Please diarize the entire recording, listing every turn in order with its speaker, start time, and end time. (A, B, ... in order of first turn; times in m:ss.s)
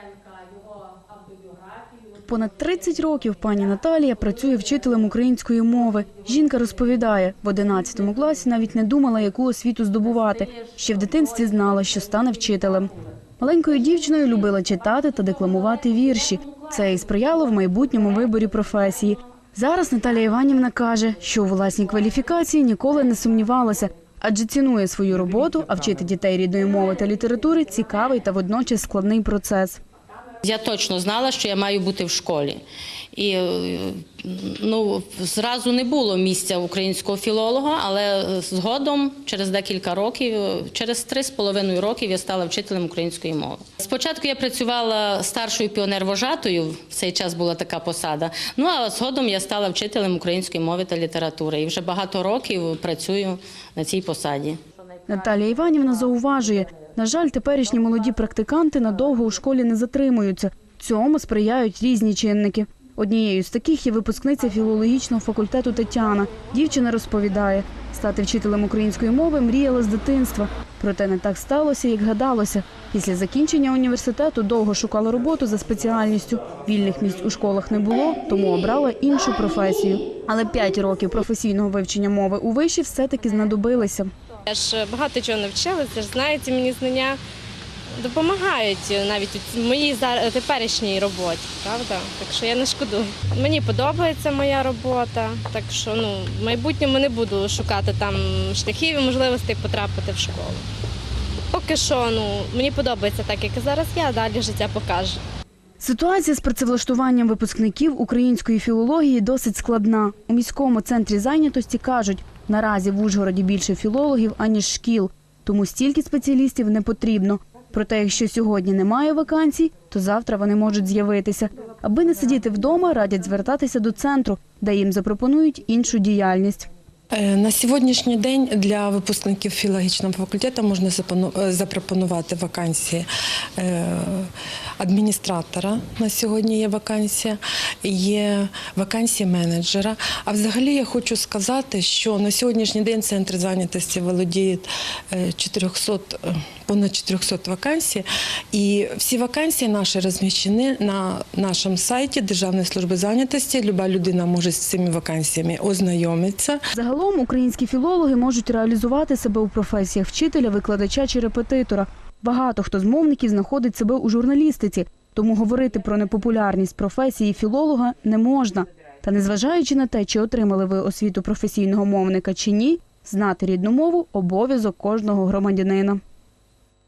0:02.2-0:29.8 A
0:30.4-0:32.6 B
0:33.1-0:54.6 B
0:55.1-1:24.1 A
1:24.5-1:27.2 C
1:28.0-1:40.6 C
1:41.5-1:45.2 C
1:45.8-2:06.7 A
2:07.1-2:36.6 D
2:36.8-2:56.0 A